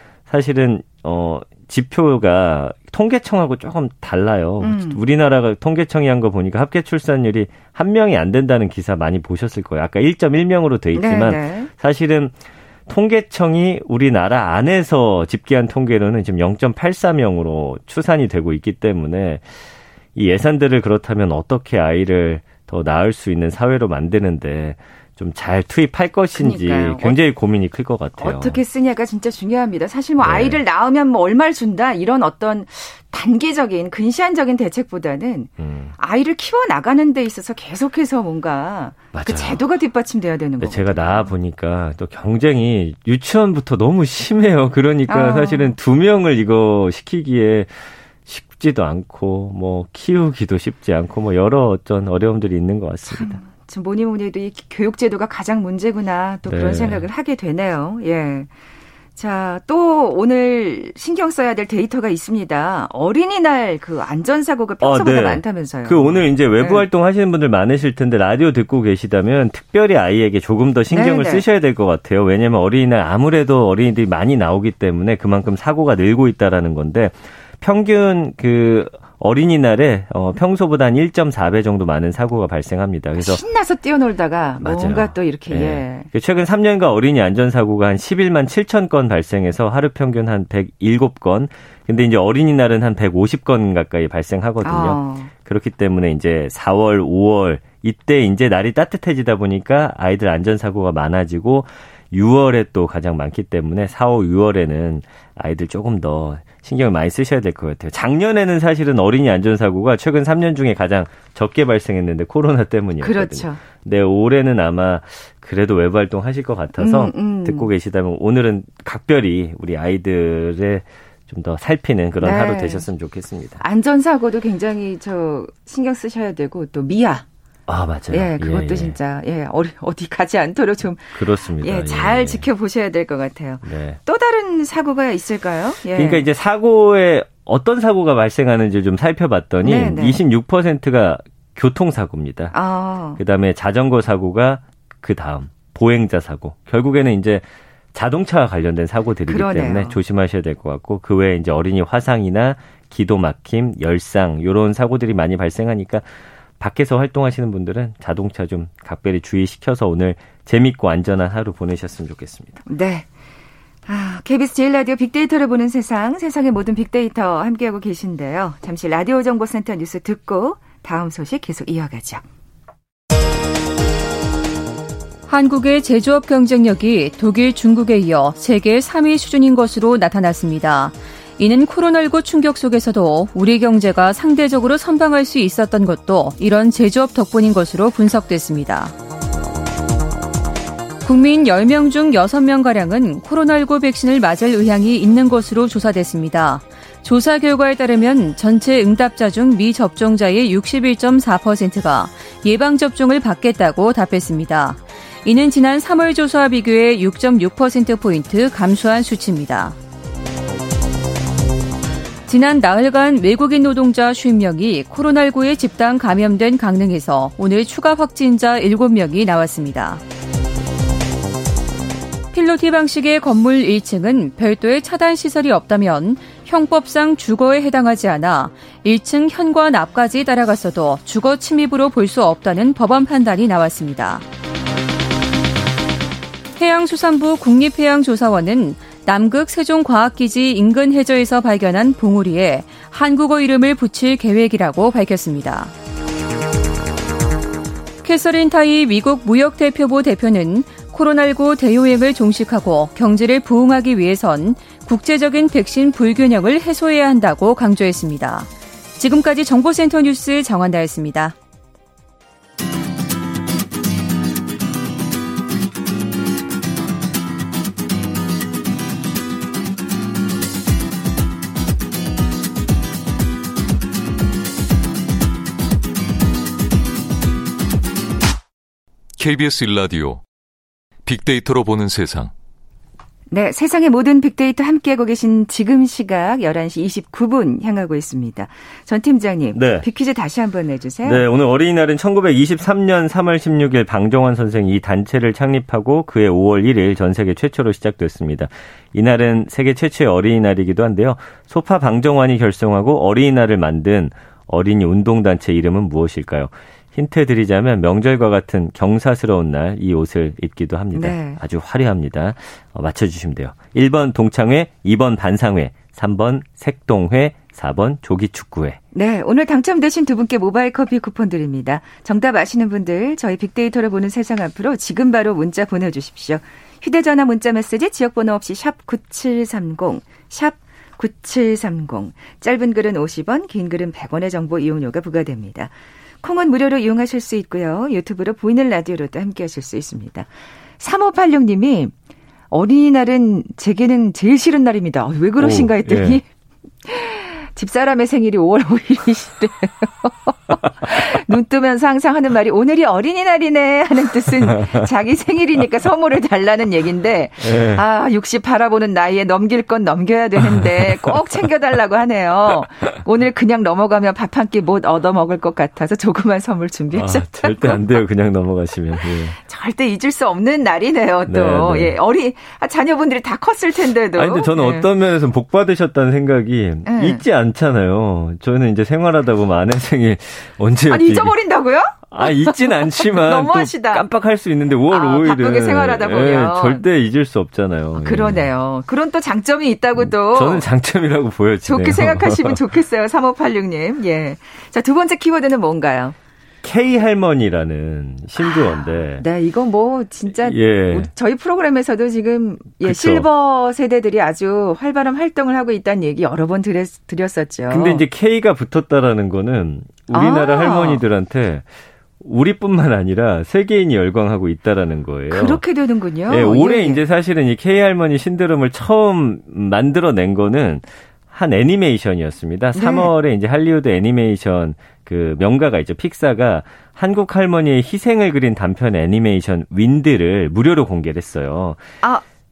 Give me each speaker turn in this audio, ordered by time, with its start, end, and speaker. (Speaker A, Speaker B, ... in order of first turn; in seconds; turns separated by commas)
Speaker A: 0.3-12.3, Speaker B: 4.6-5.0, Speaker B: 10.9-11.7, Speaker A: 12.9-19.5, Speaker A: 20.1-28.6, Speaker B: 26.3-27.2, Speaker B: 28.2-41.3, Speaker A: 30.2-30.6, Speaker A: 35.6-35.9, Speaker A: 39.1-39.6, Speaker A: 40.6-53.4, Speaker B: 45.1-45.7, Speaker B: 53.1-58.5, Speaker A: 56.5-57.0, Speaker B: 59.1-66.8, Speaker A: 64.8-83.4, Speaker B: 70.9-71.4, Speaker B: 83.2-86.1, Speaker A: 84.6-123.6, Speaker B: 94.6-95.3, Speaker B: 113.0-113.6, Speaker B: 116.8-117.7, Speaker B: 122.2-122.8, Speaker B: 123.6-127.2, Speaker A: 127.7-128.9, Speaker B: 128.1-136.2, Speaker A: 131.1-132.4, Speaker A: 133.6-134.0, Speaker A: 135.9-142.5, Speaker B: 139.6-140.2, Speaker B: 142.5-143.2, Speaker A: 143.2-156.1, Speaker B: 149.3-150.0, Speaker A: 156.6-162.6, Speaker B: 162.7-163.1, Speaker B: 163.8-172.2, Speaker C: 175.3-188.9, Speaker C: 191.0-209.8, Speaker C: 212.3-220.0, Speaker C: 222.3-234.2, Speaker C: 236.6-245.7, Speaker C: 248.0-261.3, Speaker D: 279.1-280.2, Speaker D: 281.0-282.3, Speaker B: 283.3-291.2, Speaker A: 289.5-289.9, Speaker A: 291.0-318.8, Speaker B: 310.9-311.4, Speaker B: 318.9-340.3, Speaker B: 340.8-341.9, Speaker B: 342.5-346.2, Speaker A: 345.4-346.2, Speaker B: 346.8-367.8, Speaker A: 357.4-357.8, Speaker A: 360.4-361.2, Speaker A: 366.9-369.4, Speaker B: 369.4-374.9, Speaker A: 371.3-372.0, Speaker A: 374.1-381.4, Speaker B: 376.9-377.2, Speaker B: 380.9-384.0, Speaker A: 382.1-388.5, Speaker B: 384.9-386.8, Speaker B: 388.0-390.6, Speaker A: 390.0-392.6, Speaker B: 391.6-396.1, Speaker A: 396.6-399.2, Speaker B: 398.4-408.0, Speaker A: 400.4-401.1, Speaker A: 402.8-403.3, Speaker A: 407.7-411.7, Speaker B: 410.1-411.0, Speaker A: 412.2-415.6, Speaker B: 415.3-417.0, Speaker A: 416.3-431.8, Speaker B: 422.7-423.1